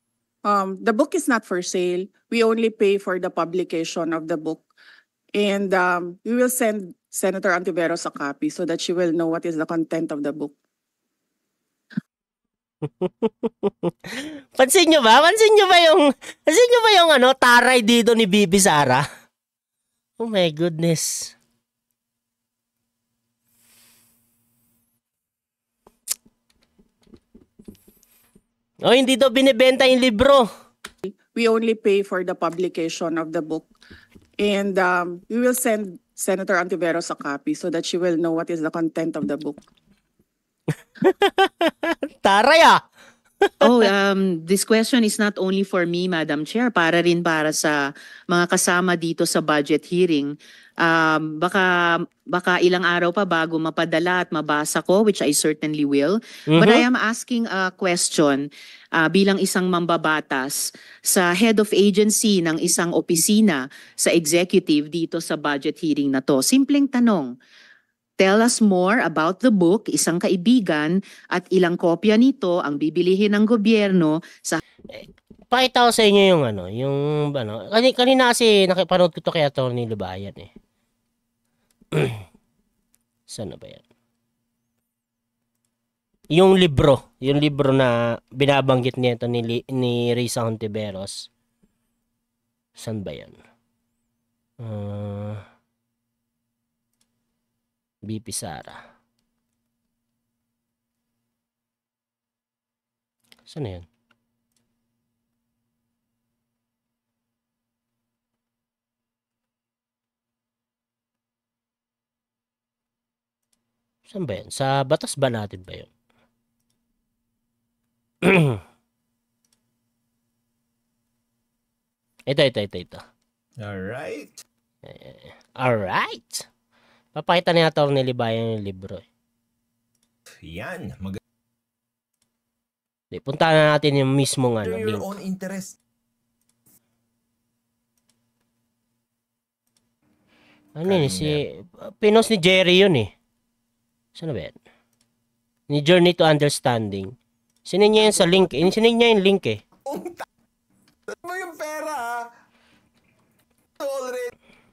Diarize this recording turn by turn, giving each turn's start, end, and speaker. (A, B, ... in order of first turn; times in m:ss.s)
0:00.4-0:04.6 A
0:05.4-0:10.5 A
0:12.8-0:19.0 B
0:20.2-0:21.3 B
0:28.8-0:30.4 B
0:31.0-0:33.7 A
0:34.4-0:39.6 A
0:41.0-0:42.8 B
0:43.4-0:43.8 B
0:43.6-1:07.3 C
0:56.5-0:56.8 B
1:08.2-1:14.6 C
1:14.9-1:20.5 B
1:21.9-1:22.2 B
1:23.3-1:23.8 B
1:26.3-1:31.3 B
1:32.8-1:33.4 B
1:34.6-1:35.4 B
1:38.0-1:38.8 B
1:43.5-1:43.8 B
1:54.1-1:55.9 B
1:58.2-1:58.6 B
2:02.3-2:03.0 B
2:03.6-2:04.4 D
2:04.8-2:06.4 B
2:07.1-2:09.0 B
2:10.4-2:11.2 D
2:13.1-2:15.1 B
2:14.6-2:15.8 D
2:20.8-2:23.1 B
2:20.8-2:21.4 D
2:24.2-2:24.5 B
2:25.7-2:27.1 B
2:27.7-2:29.6 B
2:29.8-2:30.2 D
2:31.2-2:32.3 D
2:33.8-2:34.3 D